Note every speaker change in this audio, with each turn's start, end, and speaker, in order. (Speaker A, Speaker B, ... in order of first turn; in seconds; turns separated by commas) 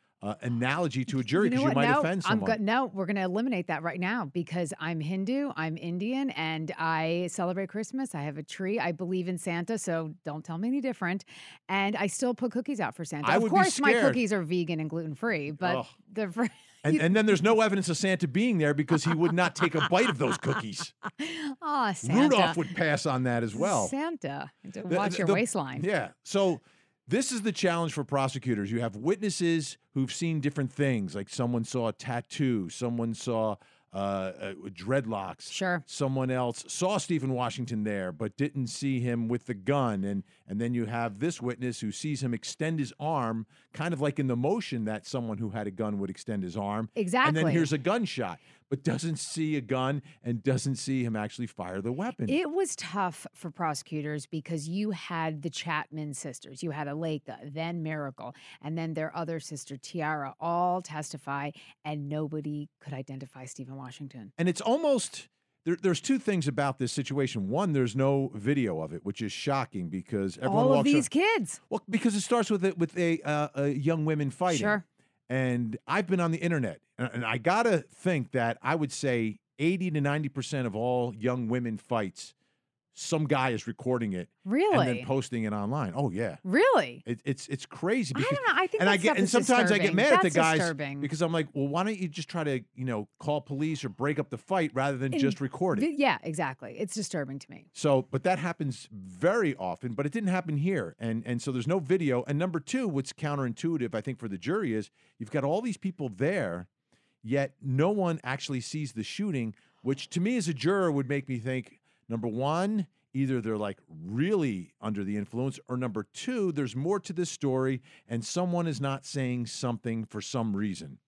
Speaker A: 0.2-2.6, Speaker B: 1.2-17.4, Speaker A: 13.2-14.2, Speaker A: 15.6-15.9, Speaker A: 16.8-21.0, Speaker B: 21.2-22.6, Speaker A: 22.0-23.9, Speaker B: 23.6-25.9, Speaker A: 24.9-52.4, Speaker B: 35.5-35.8, Speaker B: 47.0-47.7, Speaker B: 52.3-64.3, Speaker A: 64.4-71.1, Speaker B: 70.5-71.6, Speaker A: 71.7-82.3, Speaker B: 74.5-74.8, Speaker A: 82.9-86.4, Speaker B: 84.5-85.1, Speaker B: 86.5-87.0, Speaker A: 87.0-95.9, Speaker B: 88.2-91.1, Speaker B: 95.1-97.7, Speaker A: 97.7-106.7, Speaker A: 107.2-121.0